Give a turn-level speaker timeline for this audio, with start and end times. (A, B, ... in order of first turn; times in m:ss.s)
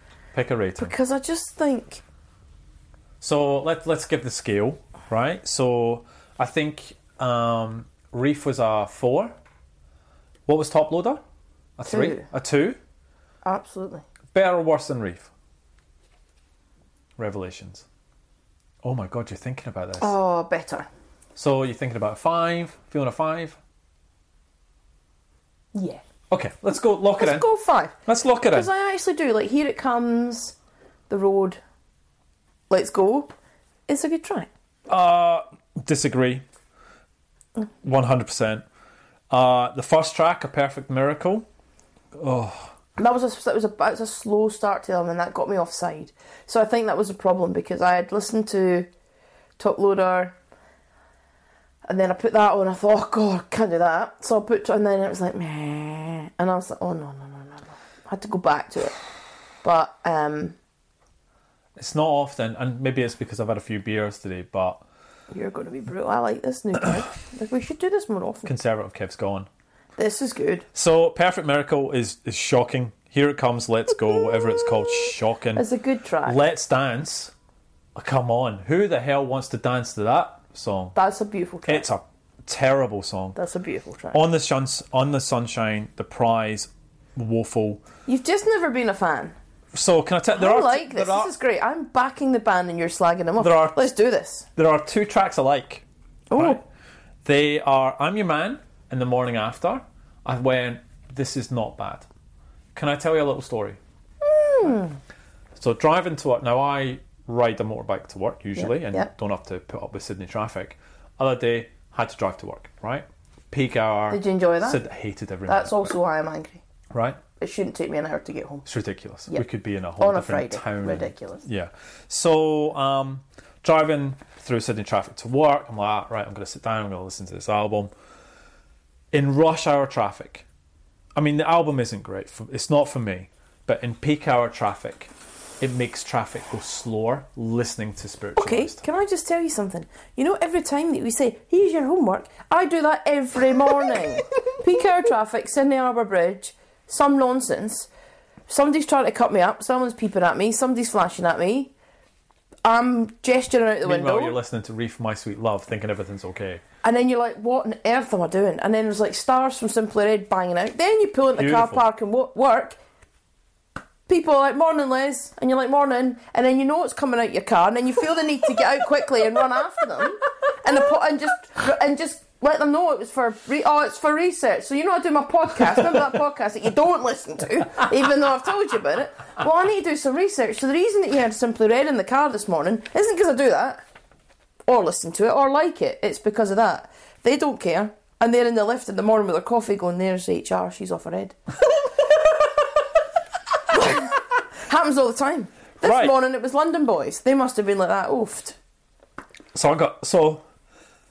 0:00.3-0:00.9 A
0:00.8-0:02.0 B
0:03.2-0:09.3 A
0:10.5-0:11.2 A
0:11.8-0:12.8 A
0:11.8-0:12.2 B
0:13.4-0:14.1 B
0:14.3-0:15.3 A
0:17.2-0:17.8 A
0:18.8-0:20.1 A
0:20.0-0:20.9 B
0:21.4-0:23.6 A
0:25.7-0:26.0 B
0:26.3-0:27.5 A
0:27.2-0:30.6 B
0:28.0-0:28.7 A
0:31.1-0:31.6 B
0:32.7-0:33.3 B
0:33.9-0:34.5 B
0:34.9-0:36.4 A
0:37.8-0:38.6 A
0:39.3-0:41.5 A
0:42.1-0:42.7 A
0:43.0-0:48.9 B
0:49.6-0:50.3 B
0:51.8-0:59.0 B
0:59.6-1:00.6 B
1:01.8-1:04.8 A
1:05.3-1:08.5 B
1:08.4-1:09.5 A
1:10.0-1:10.6 B
1:10.7-1:15.6 A
1:15.5-1:16.4 B
1:16.2-1:17.3 A
1:18.0-1:21.0 A
1:20.9-1:21.8 B
1:21.6-1:23.4 A
1:23.4-1:24.2 B
1:24.1-1:27.8 A
1:28.0-1:29.3 B
1:29.7-1:31.3 A
1:30.3-1:34.5 B
1:33.4-1:33.9 A
1:34.6-1:36.6 A
1:36.3-1:36.6 B
1:37.2-1:42.0 A
1:42.7-1:43.8 A
1:44.2-1:45.0 B
1:45.6-1:55.9 A
1:48.6-1:49.1 B
1:54.1-1:54.8 B
1:55.5-1:56.6 B
1:56.9-1:57.2 A
1:57.4-1:58.6 B
1:58.6-2:07.9 A
2:00.0-2:01.4 B
2:09.1-2:10.4 A
2:11.1-2:18.8 A
2:18.4-2:27.9 B
2:28.5-2:31.7 B
2:32.6-2:34.4 B
2:33.8-2:36.6 A
2:36.8-2:42.8 B
2:41.4-2:41.8 A
2:44.1-3:03.8 B
3:04.7-3:11.9 B
3:13.7-3:18.6 B
3:15.8-3:16.1 A
3:19.5-3:20.4 A